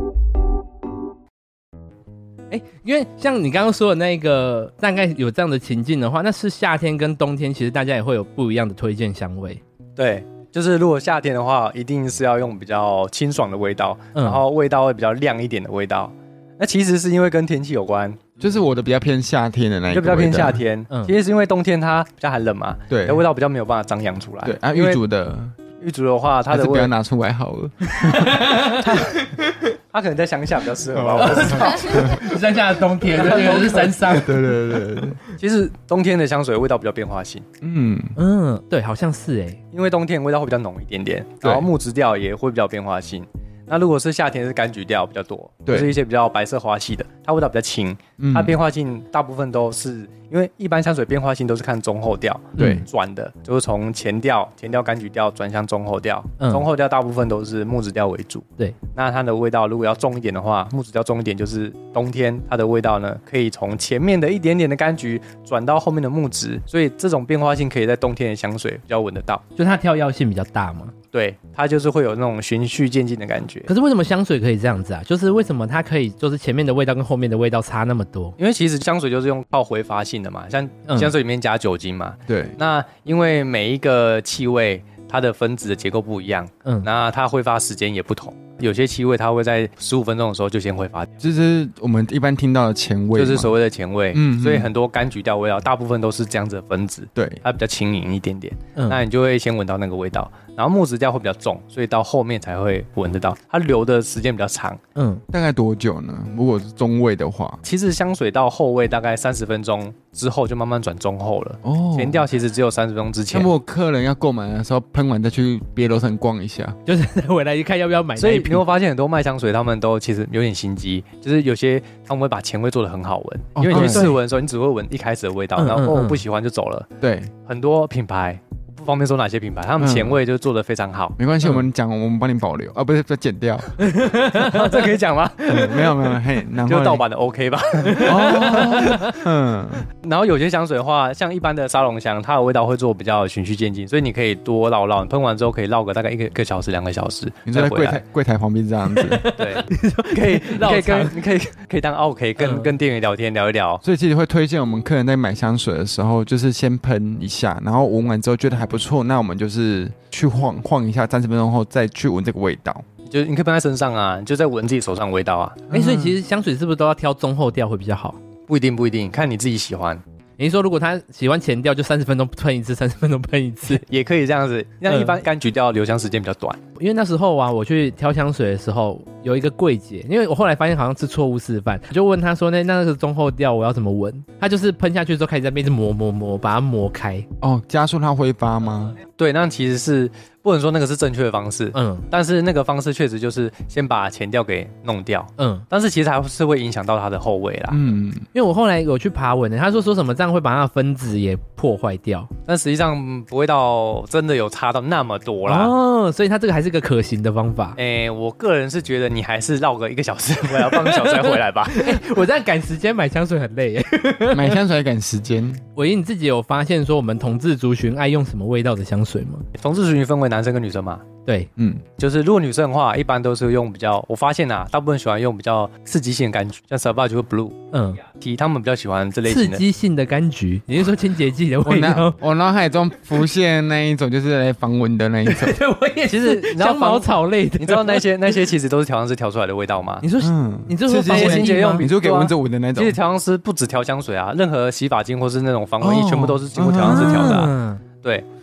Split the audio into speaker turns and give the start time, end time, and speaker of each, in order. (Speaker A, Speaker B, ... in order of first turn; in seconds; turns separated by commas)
Speaker A: 2.5-9.6, Speaker B: 10.0-18.2, Speaker A: 14.1-14.4, Speaker C: 18.4-20.6, Speaker B: 19.9-25.0, Speaker C: 22.9-23.2, Speaker C: 24.4-25.6, Speaker B: 25.8-26.9, Speaker C: 26.5-28.5, Speaker A: 27.8-29.7, Speaker B: 28.7-29.3, Speaker B: 29.9-32.2, Speaker C: 30.9-32.3, Speaker A: 31.2-34.5, Speaker C: 33.1-35.2, Speaker B: 33.2-33.8, Speaker B: 35.4-37.5, Speaker C: 37.6-38.1, Speaker A: 38.2-39.6, Speaker B: 39.7-69.4, Speaker C: 41.4-41.7, Speaker C: 45.6-45.9, Speaker C: 48.2-48.6, Speaker A: 52.6-52.8, Speaker C: 52.6-52.8, Speaker A: 56.4-56.6, Speaker A: 69.5-70.9, Speaker B: 71.1-73.7, Speaker A: 73.7-78.3, Speaker B: 78.4-91.1, Speaker A: 80.9-81.1, Speaker C: 82.3-82.6, Speaker C: 91.2-93.5, Speaker B: 93.2-104.8, Speaker C: 94.1-94.7, Speaker C: 97.2-97.4, Speaker A: 98.8-99.0, Speaker A: 105.0-105.2, Speaker C: 105.3-107.6, Speaker B: 107.6-113.5, Speaker C: 111.6-112.2, Speaker C: 113.3-116.8, Speaker A: 116.8-118.6, Speaker B: 118.2-126.9, Speaker C: 123.5-124.1, Speaker A: 123.7-124.2, Speaker A: 125.6-126.2, Speaker C: 127.0-127.3, Speaker B: 127.5-131.2, Speaker C: 129.8-130.2, Speaker C: 131.2-133.8, Speaker A: 133.8-134.9, Speaker B: 134.3-135.8, Speaker C: 135.5-137.0, Speaker B: 136.7-139.0, Speaker A: 137.9-139.0, Speaker C: 138.0-139.9, Speaker B: 140.0-148.0, Speaker C: 147.5-149.2, Speaker A: 148.9-151.2, Speaker B: 149.3-153.8, Speaker A: 152.4-152.7, Speaker C: 153.8-162.8, Speaker B: 163.0-165.7, Speaker C: 165.7-166.2, Speaker A: 165.7-168.2, Speaker B: 168.5-170.0, Speaker A: 170.4-173.8, Speaker B: 173.7-176.6, Speaker A: 174.8-175.2, Speaker A: 176.8-187.3, Speaker C: 187.4-189.0, Speaker B: 189.2-197.8, Speaker A: 191.7-192.1, Speaker A: 195.4-195.6, Speaker C: 197.7-198.2, Speaker A: 198.3-202.3, Speaker B: 202.5-205.7, Speaker A: 205.4-207.8, Speaker B: 207.8-212.0, Speaker A: 210.5-214.6, Speaker C: 214.3-215.6, Speaker A: 215.8-219.4, Speaker B: 219.5-221.1, Speaker C: 221.6-221.8, Speaker B: 222.0-227.6, Speaker A: 227.7-228.0, Speaker B: 228.2-229.6, Speaker A: 229.3-232.2, Speaker C: 231.6-235.6, Speaker A: 235.2-238.1, Speaker B: 236.1-240.0, Speaker A: 240.0-241.9, Speaker C: 240.2-243.0, Speaker B: 241.1-248.2, Speaker C: 245.8-247.4, Speaker A: 246.8-247.8